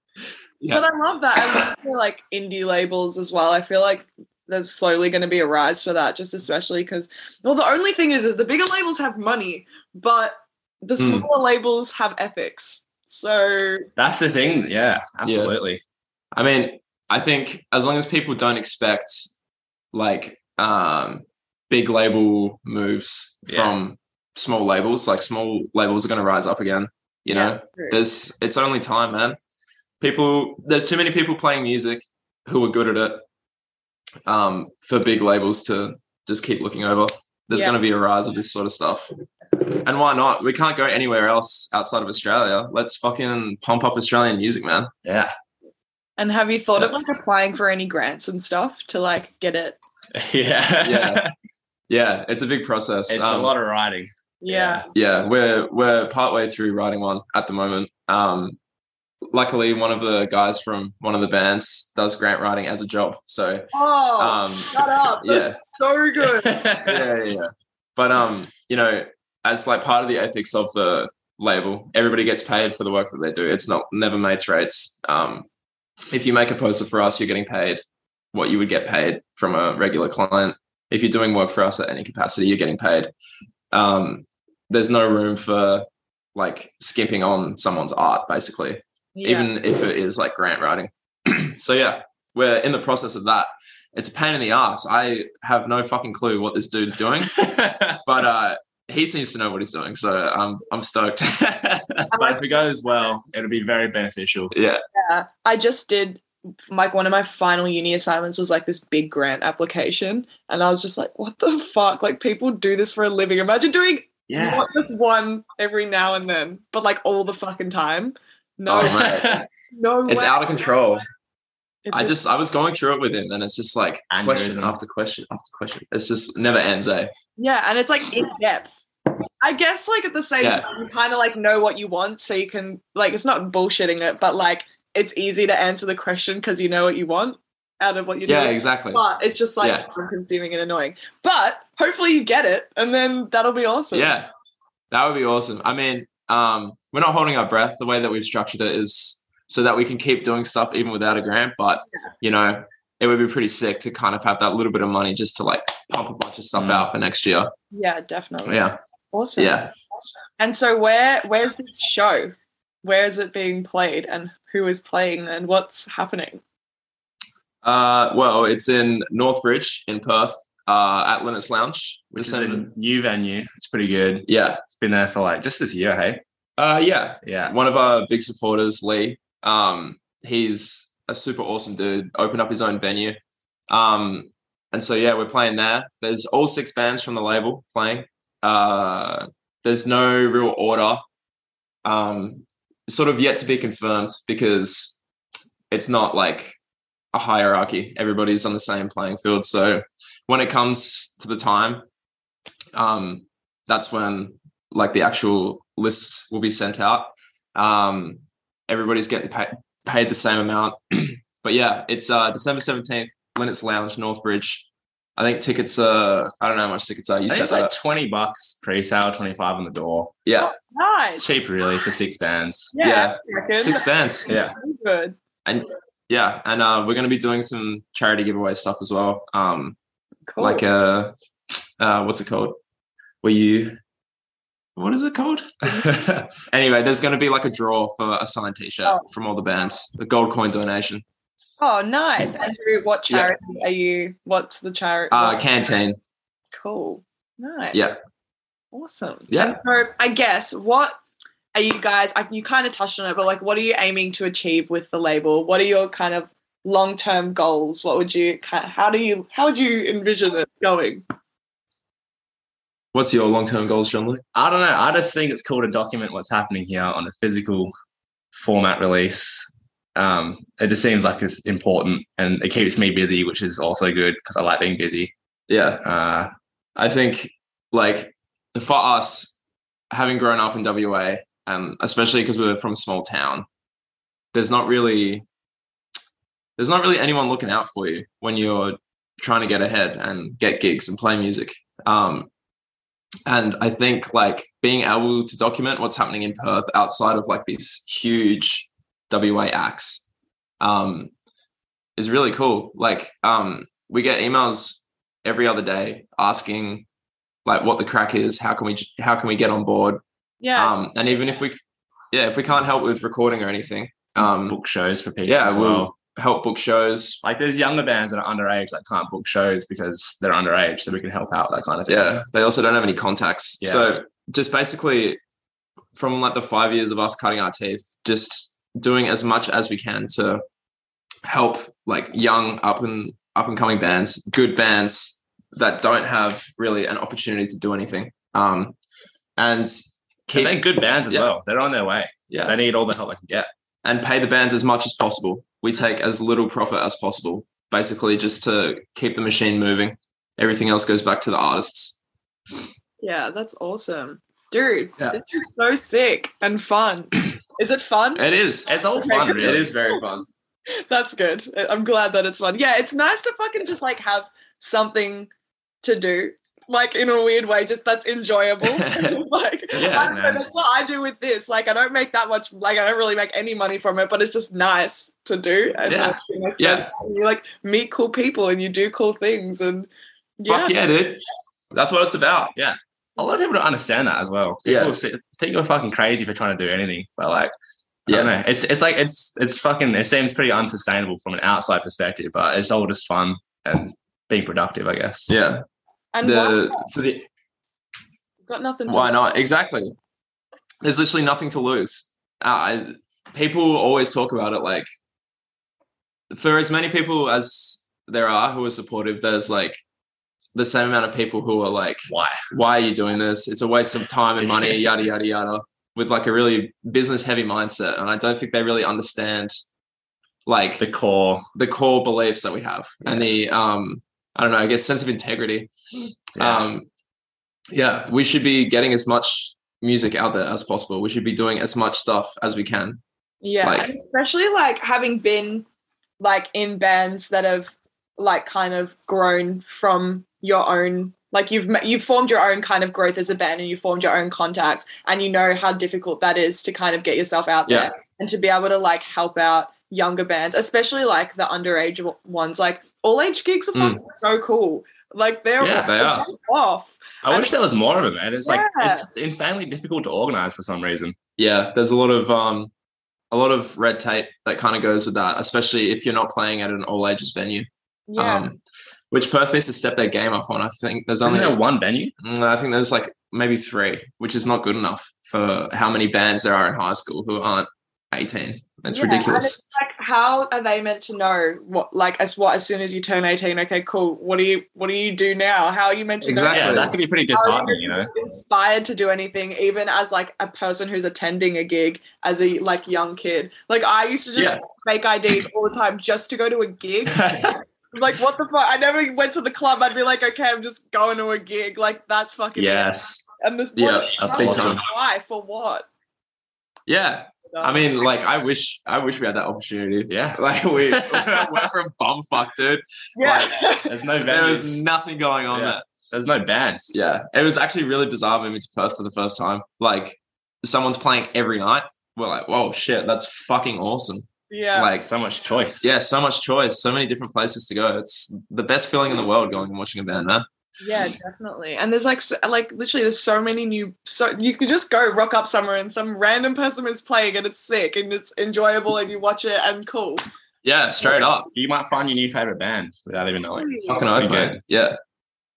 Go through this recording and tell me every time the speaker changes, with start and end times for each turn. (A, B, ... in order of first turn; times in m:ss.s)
0:00.6-0:00.8 A
0:00.7-0:13.9 B
0:01.4-0:01.7 A
0:11.0-0:11.3 A
0:14.0-0:15.8 C
0:15.2-0:15.5 A
0:16.3-0:19.3 A
0:19.9-0:29.4 A
0:23.5-0:23.8 C
0:27.3-0:28.0 B
0:30.0-0:33.2 A
0:34.2-0:44.9 A
0:45.0-0:45.3 C
0:46.2-0:49.8 B
0:50.1-0:51.3 C
0:50.8-0:51.2 A
0:51.9-0:53.5 A
0:53.1-0:54.9 C
0:54.4-0:54.9 B
0:54.9-0:58.6 A
0:59.3-1:05.6 A
1:03.7-1:06.6 B
1:06.4-1:07.0 C
1:06.8-1:15.4 A
1:16.1-1:17.8 A
1:18.3-1:23.1 A
1:23.7-1:37.4 A
1:29.2-1:29.5 B
1:37.3-1:38.0 C
1:38.0-1:42.0 A
1:42.1-1:42.4 B
1:42.1-1:44.5 C
1:44.5-1:44.8 A
1:44.9-2:00.7 B
1:54.3-1:54.6 C
1:58.7-1:59.3 A
1:58.8-1:59.4 C
2:00.1-2:01.0 A
2:01.8-2:02.1 B
2:01.9-2:07.1 A
2:04.1-2:04.8 C
2:07.4-2:08.7 B
2:09.4-2:24.1 B
2:10.4-2:10.6 A
2:18.2-2:19.0 A
2:23.9-2:24.3 A
2:24.9-2:37.5 A
2:36.5-2:36.8 C
2:37.7-2:39.6 B
2:38.4-2:38.8 A
2:39.4-2:39.7 A
2:40.4-2:46.4 B
2:47.6-2:52.6 A
2:52.1-2:56.2 C
2:54.3-2:54.6 A
2:56.6-3:03.2 A
2:57.2-2:57.5 C
3:03.7-3:11.0 A
3:11.8-3:15.0 A
3:15.7-3:16.6 A
3:17.1-3:21.8 A
3:22.7-3:34.6 A
3:35.2-3:37.7 A
3:37.3-3:40.1 C
3:40.2-3:40.5 A
3:40.4-3:41.2 B
3:41.1-3:42.7 C
3:42.7-3:45.2 B
3:42.8-3:44.3 A
3:44.3-3:44.6 C
3:45.4-3:49.8 A
3:50.3-3:50.6 B
3:50.4-3:51.1 A
3:51.8-3:52.6 A
3:53.2-3:53.8 A
3:54.8-3:55.6 A
3:55.8-3:56.3 C
3:56.5-4:01.0 A
4:01.6-4:05.4 B
4:05.1-4:06.0 A
4:06.5-4:07.9 B
4:08.7-4:11.0 B
4:09.3-4:09.6 A
4:11.5-4:21.0 B
4:22.9-4:24.2 A
4:24.3-4:27.7 C
4:28.3-4:35.1 C
4:35.5-4:35.8 A
4:35.8-4:36.3 C
4:36.8-4:39.4 A
4:39.9-4:43.4 A
4:44.3-4:45.2 A
4:46.6-4:52.3 A
4:53.2-5:00.0 A
5:00.6-5:01.1 A
5:02.0-5:06.8 A
5:07.4-5:10.0 A
5:10.4-5:10.8 B
5:10.6-5:11.6 A
5:12.1-5:14.6 A
5:14.2-5:15.9 C
5:15.2-5:17.2 A
5:17.2-5:22.1 C
5:21.9-5:25.2 A
5:23.6-5:23.9 C
5:25.9-5:30.4 A
5:31.2-5:38.7 A
5:39.4-5:41.3 A
5:40.3-5:43.5 C
5:42.3-5:42.6 A
5:43.8-5:52.0 A
5:53.0-6:00.0 B
5:58.2-5:58.7 A
5:58.7-5:59.7 C
5:59.3-6:00.3 A
6:00.8-6:05.3 B
6:05.8-6:20.8 B
6:08.6-6:09.2 A
6:09.7-6:10.4 C
6:09.7-6:10.2 A
6:15.9-6:16.2 C
6:16.6-6:16.9 A
6:20.4-6:22.5 A
6:22.6-6:27.5 C
6:24.6-6:24.9 A
6:28.1-6:28.3 A
6:28.1-6:35.3 C
6:35.3-6:35.6 A
6:36.1-6:36.9 B
6:36.2-6:37.3 A
6:38.5-6:39.2 B
6:38.9-6:39.9 A
6:40.8-6:44.9 A
6:46.3-6:49.8 A
6:50.5-6:59.6 A
6:52.1-6:52.4 C
6:54.4-6:54.8 C
7:00.4-7:00.8 A
7:00.8-7:01.5 C
7:01.5-7:05.7 A
7:06.3-7:06.8 A
7:06.4-7:06.7 C
7:07.7-7:13.0 A
7:13.4-7:15.6 B
7:13.6-7:13.9 A
7:16.2-7:37.5 B
7:27.7-7:27.9 A
7:33.7-7:34.0 A
7:35.6-7:35.9 C
7:35.6-7:36.3 A
7:37.2-7:41.2 C
7:38.4-7:39.1 B
7:41.4-7:42.7 A
7:43.3-7:48.6 A
7:48.1-7:48.5 B
7:49.1-7:51.6 A
7:51.2-7:52.1 C
7:52.2-7:59.6 A
7:58.9-8:25.9 B
8:06.2-8:07.0 A
8:06.5-8:08.1 C
8:14.4-8:14.6 A
8:22.6-8:23.2 C
8:23.8-8:24.8 A
8:24.2-8:24.8 C
8:26.9-8:33.7 A
8:27.5-8:27.8 B
8:30.1-8:31.7 C
8:33.2-8:33.9 B
8:33.8-8:34.8 C
8:34.2-8:35.8 A
8:35.5-8:36.9 C
8:36.9-8:45.1 A
8:44.5-8:45.0 B
8:44.8-8:45.9 C
8:45.8-8:50.4 A
8:50.8-9:00.2 B
9:00.6-9:01.5 A
9:01.5-9:04.6 C
9:03.5-9:04.1 B
9:03.8-9:05.0 A